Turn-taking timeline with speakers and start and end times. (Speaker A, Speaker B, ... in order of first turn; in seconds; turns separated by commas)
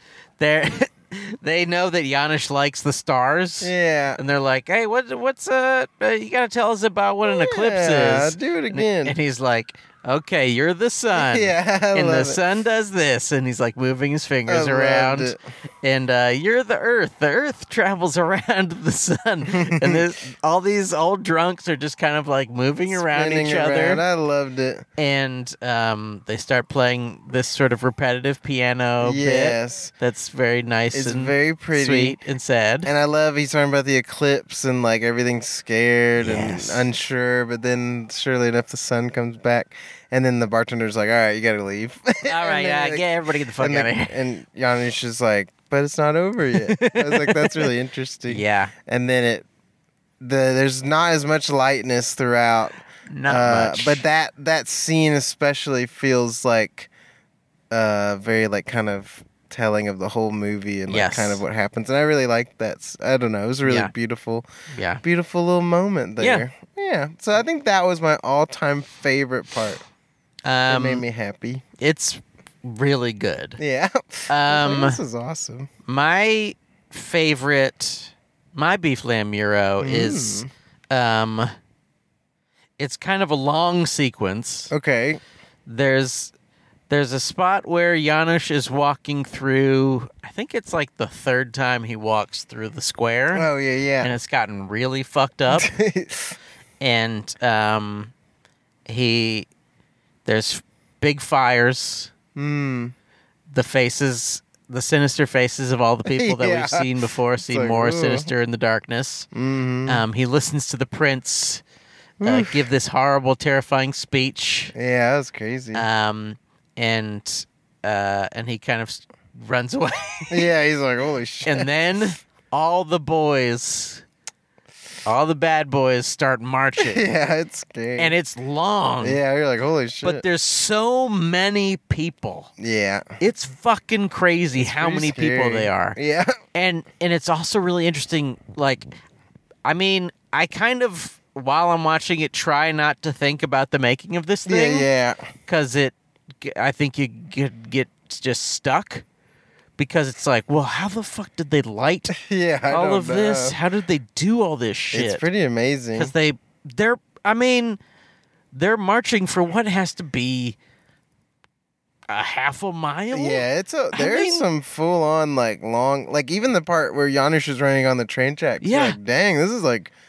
Speaker A: 0.4-24.0, Speaker B: 3.6-4.2, Speaker B: 7.3-9.2, Speaker B: 11.2-12.4, Speaker B: 14.5-15.4, Speaker B: 19.5-20.1, Speaker B: 22.9-24.9, Speaker A: 25.0-32.9, Speaker B: 29.0-29.9, Speaker B: 30.9-32.2, Speaker B: 32.9-43.0, Speaker A: 36.2-36.9, Speaker A: 42.3-44.2, Speaker B: 43.6-49.5, Speaker A: 46.5-47.7, Speaker A: 48.3-48.7, Speaker B: 50.2-56.9, Speaker A: 53.1-54.0, Speaker B: 57.7-64.5, Speaker A: 60.9-61.4, Speaker A: 63.6-63.9, Speaker A: 64.7-65.0, Speaker B: 65.0-69.8, Speaker A: 66.2-66.5, Speaker A: 70.5-71.0, Speaker B: 70.7-71.6, Speaker A: 71.8-73.6, Speaker B: 73.6-75.7, Speaker A: 74.3-75.0, Speaker A: 75.9-81.5, Speaker B: 79.8-80.5, Speaker A: 82.8-84.7, Speaker B: 84.7-85.2, Speaker A: 85.7-86.3, Speaker A: 86.9-93.5, Speaker B: 93.3-94.1, Speaker A: 94.0-95.7, Speaker B: 95.5-96.4, Speaker A: 96.8-98.1, Speaker A: 98.9-99.5, Speaker A: 100.3-102.1, Speaker B: 102.3-102.9, Speaker A: 103.5-109.3, Speaker B: 106.1-106.9, Speaker B: 107.4-108.3, Speaker B: 109.3-110.0, Speaker A: 109.9-111.6, Speaker B: 112.2-112.6, Speaker A: 112.2-114.7, Speaker B: 114.8-115.9, Speaker A: 115.7-120.5, Speaker B: 120.3-121.7, Speaker A: 121.5-124.0, Speaker A: 125.1-127.0, Speaker B: 126.8-128.1, Speaker A: 128.0-129.2, Speaker B: 129.0-130.2, Speaker A: 130.0-132.5, Speaker B: 132.6-133.2, Speaker A: 133.2-136.0, Speaker B: 134.6-136.4, Speaker A: 136.5-138.9, Speaker A: 139.7-144.9, Speaker B: 144.5-145.3, Speaker A: 145.5-149.1, Speaker A: 149.8-152.1, Speaker B: 152.1-153.6, Speaker A: 152.7-155.2, Speaker B: 154.9-156.1, Speaker A: 155.9-157.8, Speaker A: 158.5-160.6, Speaker A: 162.1-164.5, Speaker B: 163.1-169.9, Speaker A: 168.6-169.0